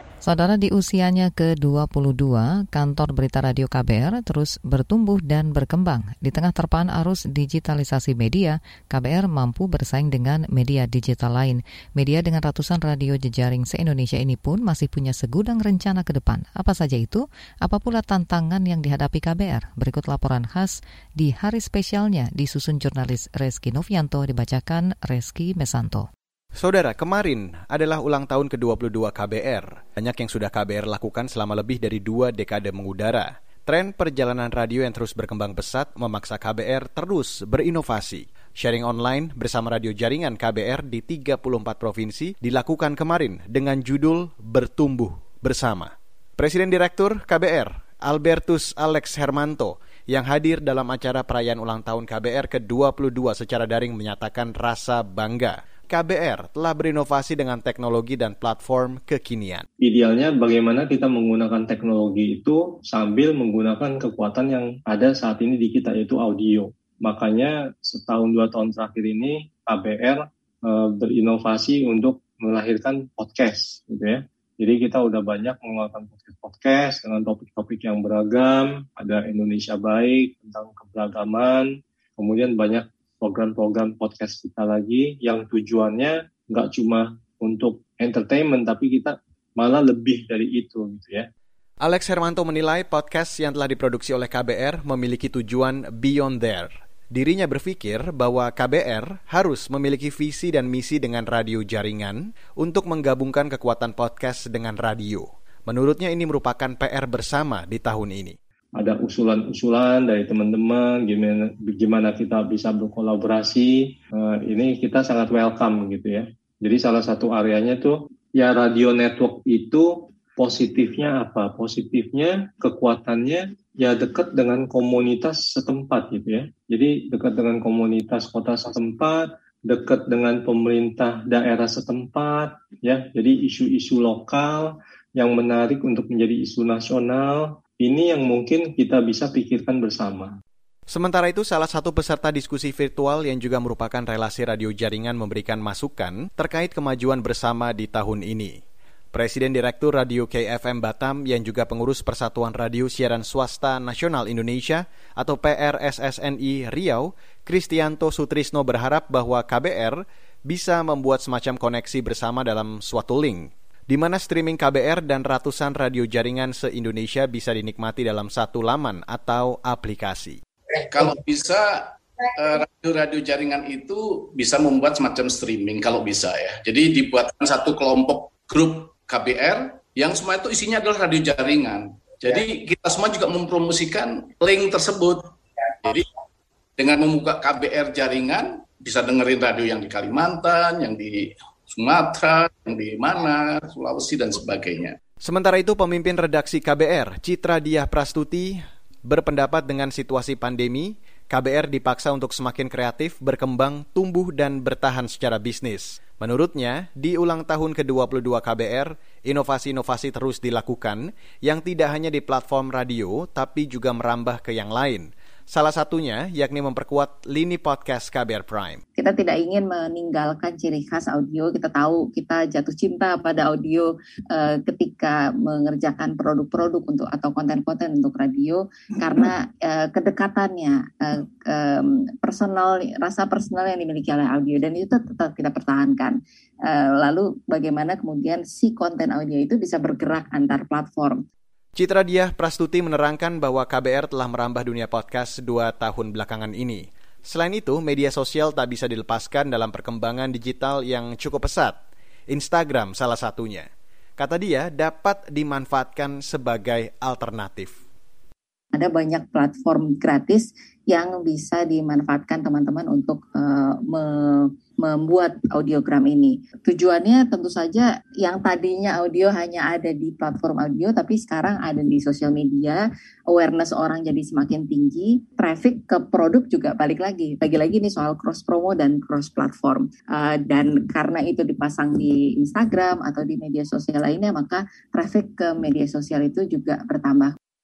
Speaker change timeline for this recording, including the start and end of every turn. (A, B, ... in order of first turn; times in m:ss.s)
0:00.2-0:26.1 A
0:26.6-0:59.7 B
0:59.8-1:31.3 C
1:31.8-1:48.4 B
1:48.8-2:20.3 C
2:20.9-2:28.6 B
2:29.1-2:50.4 B
2:50.8-3:05.2 D
3:06.8-3:15.0 D
3:15.2-3:38.8 B
3:39.0-4:01.2 E
4:01.8-4:11.8 B
4:12.3-4:17.8 B
4:18.7-4:47.4 E